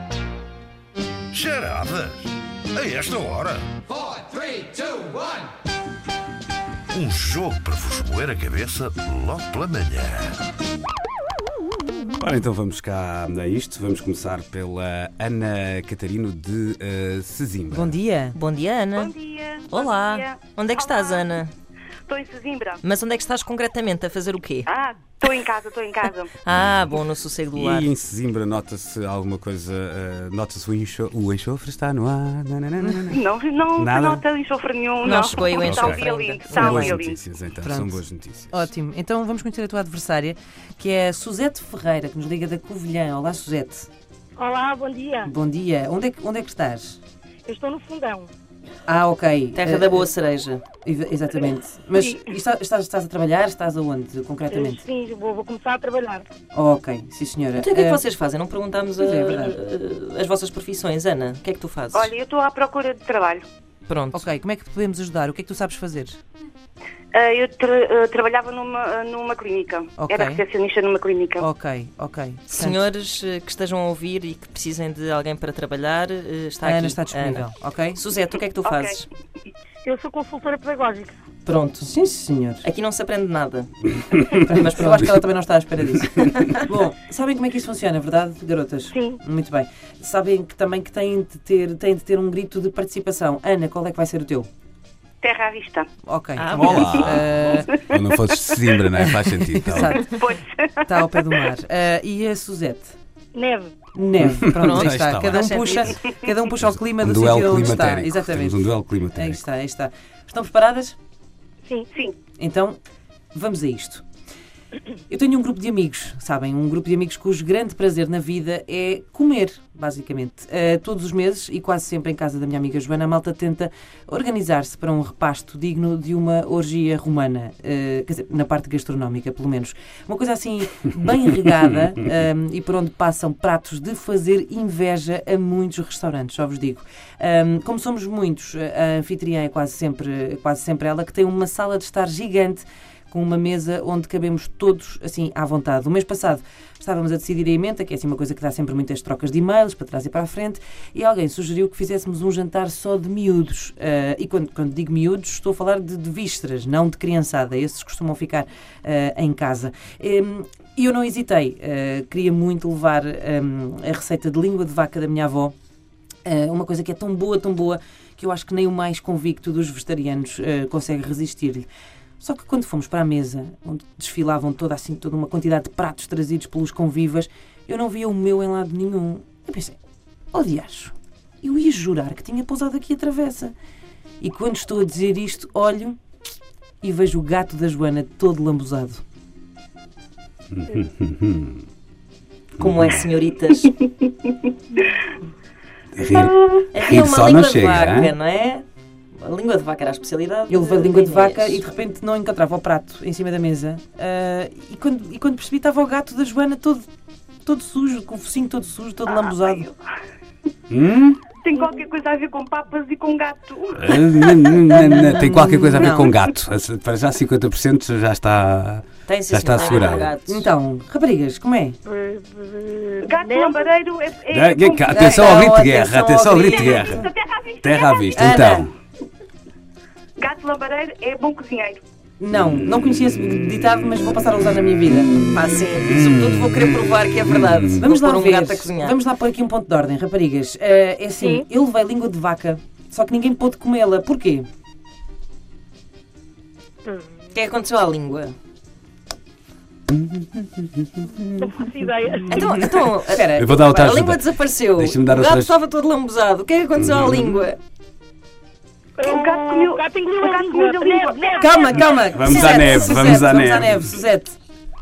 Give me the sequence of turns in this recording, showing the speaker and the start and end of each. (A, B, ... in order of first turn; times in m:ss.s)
0:01.3-0:03.7 A
0:06.9-0:10.4 A
0:12.2-0:18.0 B
0:17.7-0:18.4 C
0:18.3-0:19.1 D
0:19.0-0:21.4 E
0:19.7-0:21.5 D
0:22.1-0:22.8 E
0:22.8-0:24.7 D
0:24.7-0:26.3 E
0:26.4-0:27.9 D
0:26.5-0:27.0 B
0:27.5-0:33.2 B
0:33.1-0:37.2 E
0:33.8-0:34.2 B
0:35.0-0:37.0 D
0:35.0-0:38.7 B
0:37.6-0:43.9 C
0:44.4-0:45.3 F
0:45.2-0:47.0 C
0:47.4-0:48.3 F
0:48.8-0:50.1 C
0:49.5-0:50.6 D
0:50.8-0:54.8 C
0:54.5-0:56.2 F
0:56.5-0:58.0 C
0:57.6-1:02.1 D
0:59.0-0:59.6 C
1:01.9-1:03.4 E
1:03.9-1:04.2 D
1:04.1-1:06.2 C
1:07.1-1:11.4 E
1:10.0-1:10.4 C
1:11.4-1:12.8 C
1:12.5-1:19.1 D
1:16.6-1:18.0 C
1:18.6-1:19.0 E
1:19.8-1:21.1 F
1:21.4-1:21.8 D
1:21.8-1:22.6 C
1:22.6-1:25.3 D
1:24.3-1:34.5 C
1:26.2-1:26.6 D
1:28.9-1:29.2 F
1:35.2-1:35.9 E
1:36.0-1:37.7 C
1:36.4-1:37.0 D
1:36.5-1:40.0 B
1:39.0-1:40.2 C
1:39.8-1:41.4 E
1:40.8-1:43.0 C
1:43.3-1:43.7 F
1:43.9-1:51.0 C
1:44.2-1:45.6 B
1:44.6-1:45.9 D
1:46.9-1:49.4 B
1:52.4-1:52.8 C
1:53.3-1:54.0 C
1:55.1-2:45.5 C
2:46.2-2:51.7 C
2:52.2-2:59.8 C
3:00.3-3:03.5 C
3:04.2-3:06.0 C
3:06.8-3:09.0 C
3:10.5-3:11.6 B
3:12.6-3:13.7 D
3:12.6-3:13.0 B
3:15.9-3:18.1 B
3:16.1-3:16.6 E
3:16.7-3:18.6 D
3:19.1-3:21.6 D
3:20.5-3:26.8 C
3:27.4-3:29.7 C
3:29.1-3:29.5 E
3:30.7-3:31.2 B
3:31.4-3:34.8 E
3:33.8-3:40.1 B
3:34.7-3:36.1 C
3:39.0-3:40.5 D
3:40.1-3:41.8 C
3:41.8-3:43.7 F
3:43.0-3:45.0 E
3:44.3-3:47.1 B
3:44.9-3:47.0 C
3:46.4-3:48.4 E
3:47.6-3:48.7 B
3:48.1-3:48.7 C
3:50.2-3:51.8 E
3:52.2-3:55.1 C
3:55.2-3:59.0 D
3:55.8-3:57.8 B
3:57.8-4:04.5 C
4:01.2-4:01.4 F
4:07.3-4:08.3 D
4:09.9-4:11.5 B
4:11.4-4:12.4 F
4:12.2-4:12.6 B
4:12.3-4:17.6 D
4:13.0-4:14.0 C
4:13.4-4:15.5 B
4:16.8-4:17.5 B
4:19.0-4:22.4 F
4:19.0-4:21.7 E
4:21.4-4:24.4 C
4:22.1-4:23.8 B